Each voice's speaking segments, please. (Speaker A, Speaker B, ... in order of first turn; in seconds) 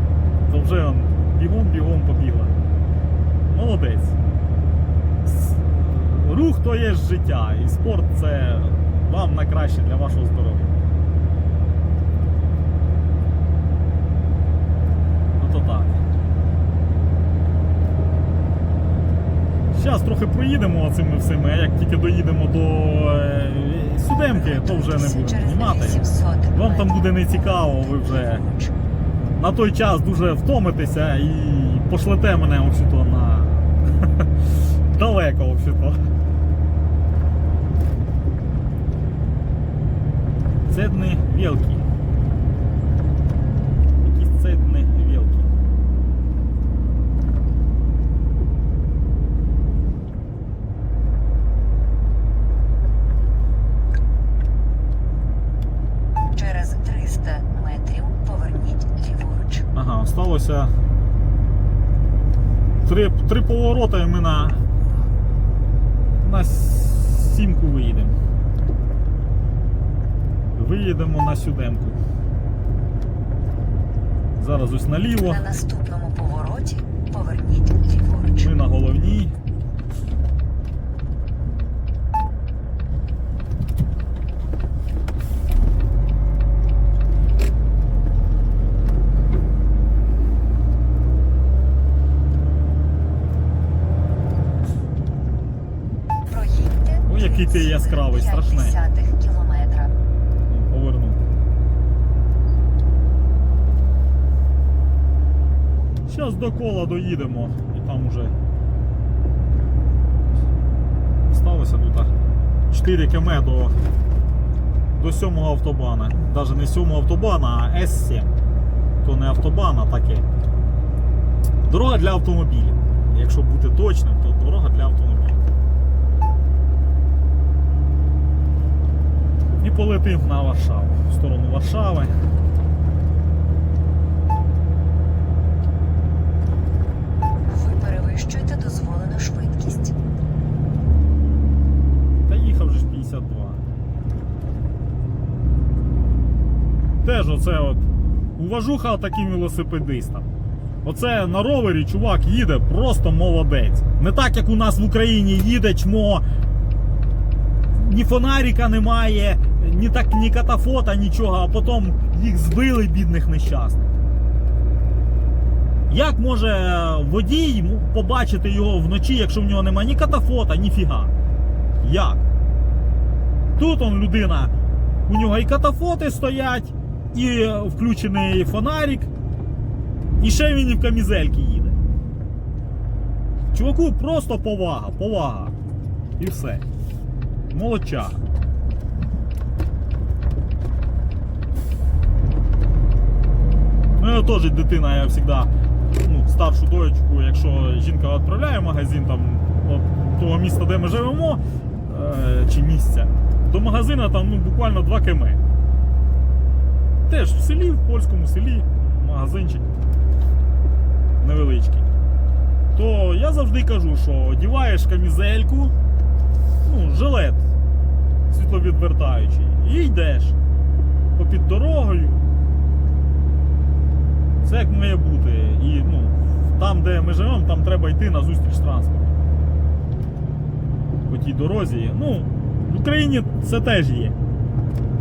Speaker A: 0.5-2.6, 3.5-4.2, 5.2-10.7, 15.4-16.0, 19.7-28.4, 29.4-34.3, 34.9-36.0, 40.7-41.8, 44.0-45.5, 59.7-60.7, 62.9-64.7, 66.2-68.2, 70.6-72.0, 74.4-75.4, 78.4-79.3, 97.1-98.8, 100.5-101.2, 106.1-108.3, 111.3-112.1, 112.7-113.8, 114.9-118.3, 119.0-120.3, 121.7-125.5, 129.6-132.1, 142.3-143.6, 147.0-147.8, 148.4-150.3, 150.8-156.2, 157.7-163.9, 165.9-171.1, 171.8-172.2, 173.6-174.5, 175.1-179.1, 180.2-181.8, 183.5-185.6, 186.2-186.6, 187.5-188.2, 194.0-205.4, 207.1-209.7, 211.2-211.9, 212.7-215.7, 216.6-217.4, 218.3-220.4, 221.2-222.2, 224.4-229.1, 231.1-234.2
Speaker B: 24.3-28.7, 56.3-59.7, 75.2-78.5, 96.3-100.0, 137.4-140.0